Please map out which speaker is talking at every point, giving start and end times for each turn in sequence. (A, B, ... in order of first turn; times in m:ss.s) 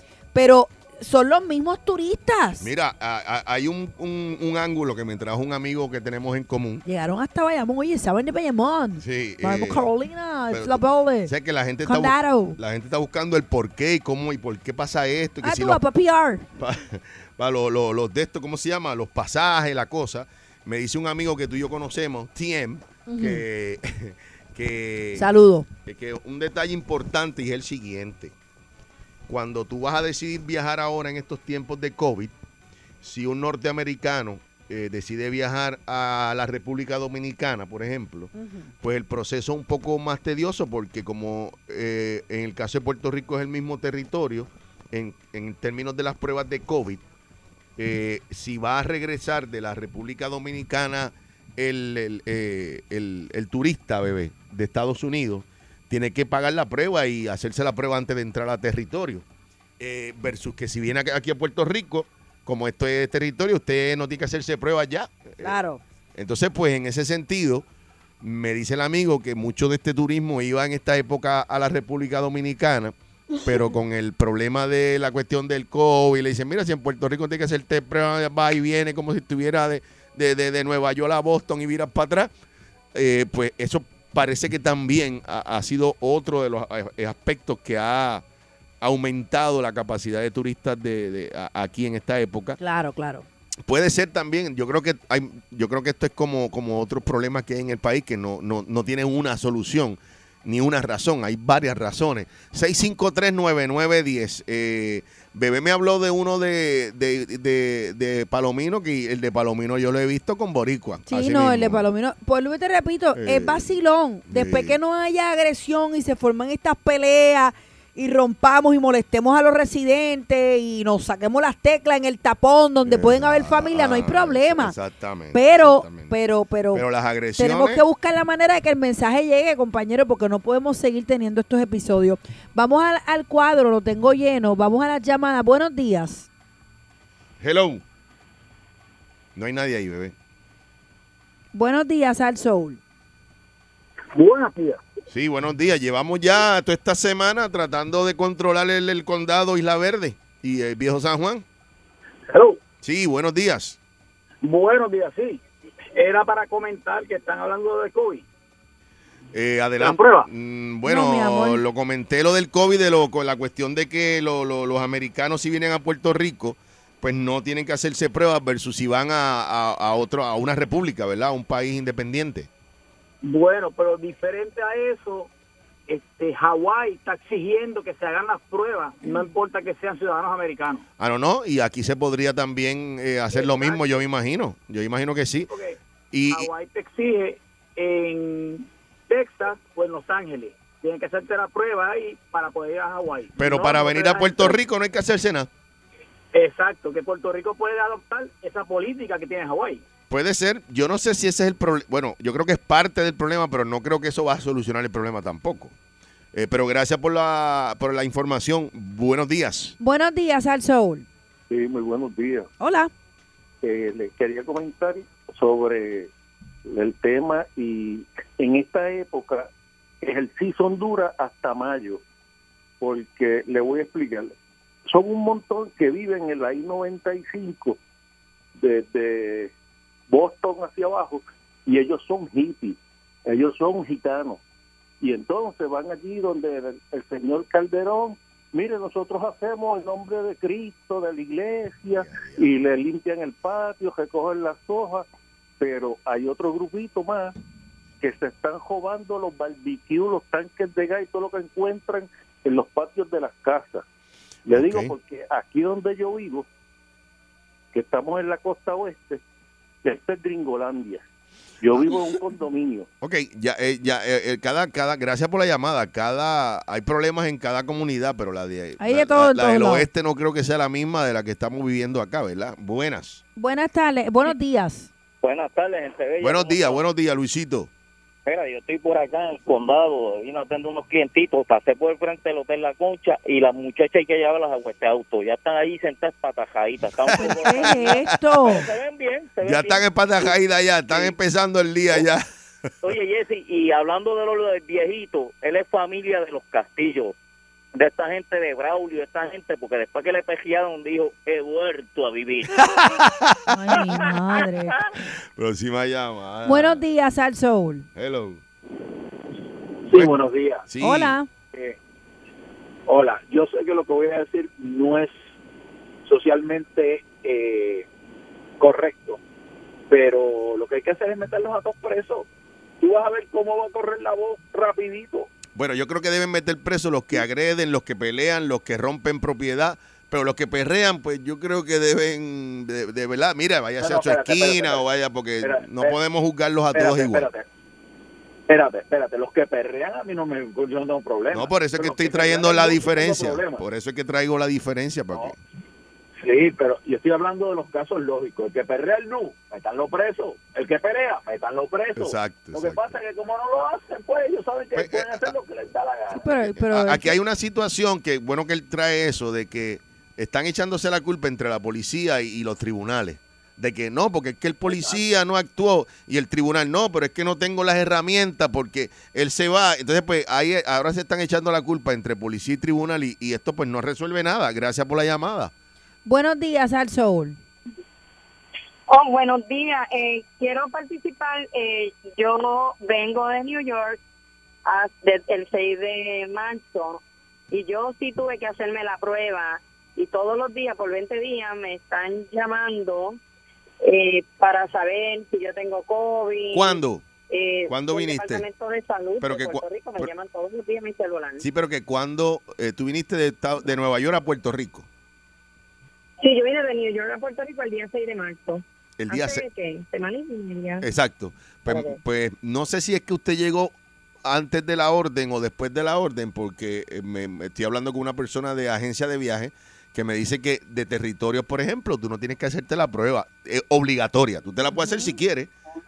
0:00.3-0:02.7 A
0:02.6-0:06.8 B
0:06.8-0:11.3 A
0:09.0-0:09.9 B
0:10.5-0:15.8 B
0:11.8-0:12.6 A
0:15.4-0:16.5 A
0:16.6-0:25.3 B
0:23.1-0:23.4 A
0:25.2-0:25.7 A
0:25.8-0:28.3 B
0:29.3-0:32.3 B
0:33.0-0:47.0 B
0:38.3-0:38.7 A
0:47.8-0:59.2 B
0:59.8-1:05.6 B
1:05.4-1:05.8 A
1:06.1-1:07.6 B
1:08.2-1:22.3 B
1:22.9-1:28.2 B
1:28.8-1:32.6 B
1:32.6-1:33.2 A
1:33.6-1:51.8 B
1:51.1-2:04.7 A
1:53.1-1:53.7 B
1:54.3-1:54.8 B
2:02.8-2:06.1 B
2:05.3-2:06.8 A
2:06.7-2:07.8 B
2:07.4-2:16.3 A
2:17.4-2:17.8 B
2:19.4-2:20.1 B
2:21.5-2:22.8 A
2:24.1-2:24.8 C
2:25.1-2:31.4 B
2:32.3-2:32.6 C
2:32.8-2:33.8 B
2:34.4-2:35.4 C
2:36.0-2:38.2 C
2:39.3-2:52.5 B
2:39.8-2:40.3 C
2:40.8-2:41.6 A
2:53.2-2:55.3 C
2:55.9-3:00.8 C
3:01.0-3:05.5 B
3:03.3-3:03.8 C
3:05.5-3:05.8 C
3:06.1-3:06.5 B
3:06.3-3:14.6 C
3:13.4-3:15.5 B
3:16.3-3:19.8 C
3:20.1-3:25.7 B
3:26.3-3:29.8 B
3:29.8-3:31.0 A
3:31.5-3:32.5 D
3:32.6-3:32.9 A
3:33.6-3:36.1 D
3:36.7-3:39.5 D
3:40.0-3:42.0 D
3:42.8-3:44.3 D
3:44.9-3:47.8 D
3:48.6-3:49.5 D
3:50.1-3:54.4 D
3:55.0-4:05.0 D
4:01.9-4:02.5 B
4:05.6-4:07.3 D
4:08.0-4:13.8 D
4:14.5-4:16.5 D
4:14.5-4:14.9 B
4:17.7-4:19.2 D
4:19.8-4:21.0 D
4:21.6-4:22.9 D
4:21.8-4:22.1 B
4:23.0-4:33.2 B
4:28.8-4:29.9 A
4:33.4-4:34.9 A
4:35.2-4:36.8 E
4:36.2-4:37.7 B
4:38.2-4:50.3 E
4:47.0-4:48.1 B
4:47.1-4:48.7 A
4:49.4-4:52.2 B
4:50.9-4:51.1 E
4:52.8-4:57.1 E
4:57.7-5:02.6 E
5:02.5-5:03.8 B
5:03.5-5:04.8 A
5:05.0-5:06.8 B
5:06.4-5:07.9 A
5:08.0-5:08.4 B
5:09.9-5:10.6 C
5:10.6-5:11.2 B
5:10.8-5:11.3 A
5:12.9-5:15.3 C
5:16.0-5:17.8 C
5:18.6-5:19.2 C
5:19.9-5:22.3 C
5:22.8-5:25.3 C
5:25.5-5:37.3 B
5:33.8-5:34.8 C
5:35.4-5:36.0 C
5:36.7-5:37.4 C
5:38.5-5:43.6 C
5:41.3-5:45.4 B
5:46.2-5:56.2 C
5:52.0-5:52.9 B
5:54.7-5:55.3 B
5:56.1-5:57.2 A
5:56.3-6:15.5 B
6:04.6-6:05.0 C
6:16.0-6:17.4 A
6:18.9-6:24.0 F
6:24.6-6:33.2 F
6:33.8-6:41.4 F
6:36.5-6:37.0 B
6:37.7-6:38.4 B
6:39.2-6:40.1 B
6:41.4-6:44.9 B
6:46.2-6:50.8 F
6:49.0-6:49.4 B
6:50.8-6:53.7 B
6:51.7-6:52.0 F
6:54.2-7:05.5 B